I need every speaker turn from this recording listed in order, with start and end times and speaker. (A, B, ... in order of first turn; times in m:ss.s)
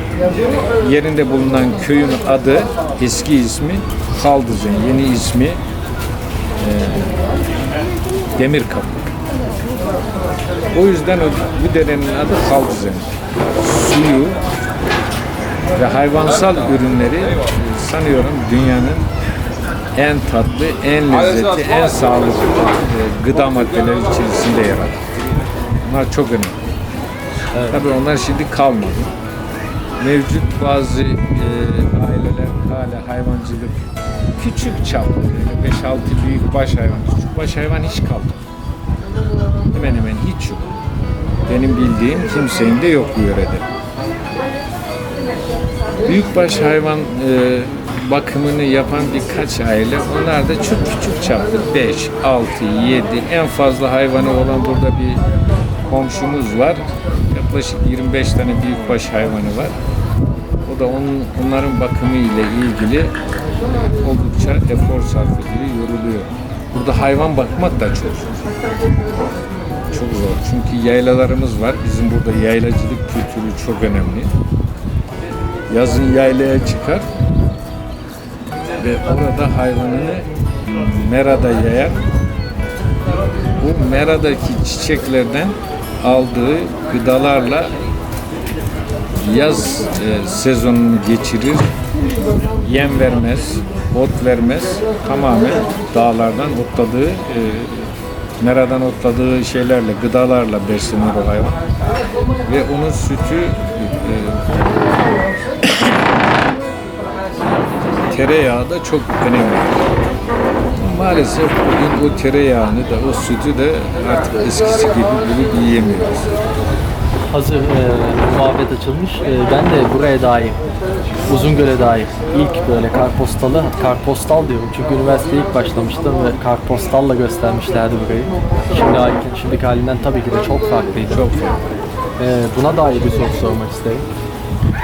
0:00.5-0:05.6 A
0:06.6-0:07.2 A
0:08.4-0:09.1 A
0:10.7-0:14.4 A
0:15.8-0:19.1 A
0:20.0-0:25.1 A
0:25.8-0:26.6 A
0:27.6-0:27.8 B
0:27.7-0:29.1 A
0:30.0-0:38.4 A
0:39.7-0:40.7 A
0:41.5-0:43.7 A
0:46.0-0:55.2 A
0:55.8-0:59.8 A
1:00.6-1:03.2 A
1:03.9-1:08.4 A
1:09.9-1:14.3 A
1:15.7-1:17.1 A
1:18.8-1:22.0 A
1:23.6-1:27.8 A
1:29.2-1:31.7 A
1:32.6-1:41.6 A
1:42.4-1:44.6 A
1:45.7-1:46.0 A
1:48.0-1:49.8 A
1:50.8-1:56.4 A
1:57.3-2:00.6 B
2:01.3-2:11.3 B
2:11.1-2:11.7 A
2:12.2-2:14.1 B